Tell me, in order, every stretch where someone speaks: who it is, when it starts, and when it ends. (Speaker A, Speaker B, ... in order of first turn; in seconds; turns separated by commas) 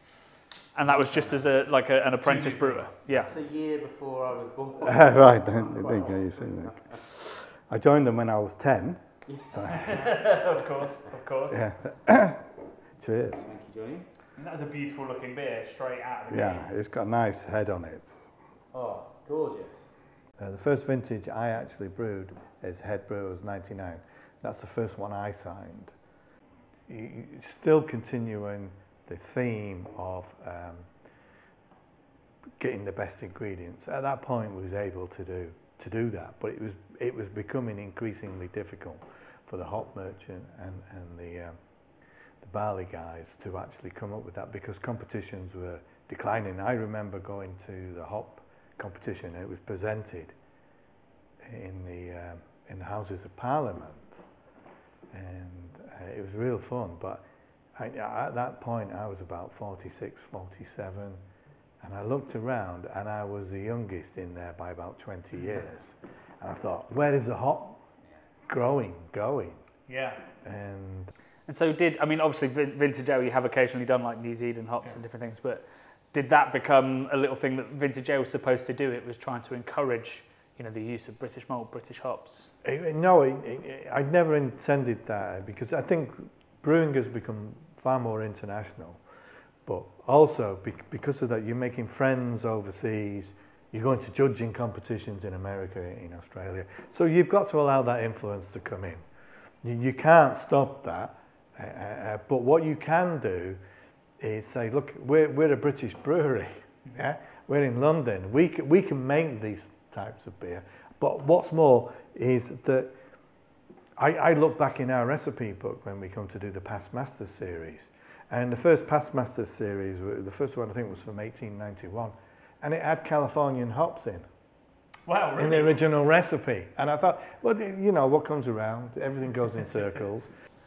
Speaker A: 0.8-3.3, Speaker B: 3.1-6.8, Speaker C: 4.8-10.1, Speaker A: 9.7-11.7, Speaker C: 11.5-12.4, Speaker C: 13.0-13.5, Speaker B: 13.4-14.1, Speaker A: 14.4-16.7, Speaker C: 16.3-18.2, Speaker B: 18.7-19.9, Speaker C: 20.4-25.9, Speaker C: 26.9-30.9, Speaker C: 32.6-41.6, Speaker C: 42.4-50.4, Speaker C: 51.4-54.2, Speaker C: 55.1-57.2, Speaker C: 57.8-61.2, Speaker C: 61.8-67.8, Speaker C: 68.5-69.6, Speaker A: 69.9-70.2, Speaker C: 70.4-71.1, Speaker A: 71.5-82.5, Speaker C: 82.6-89.0, Speaker C: 89.7-99.0, Speaker C: 99.6-103.6, Speaker C: 104.2-112.9, Speaker C: 114.0-124.3, Speaker A: 125.1-125.8, Speaker C: 125.4-130.3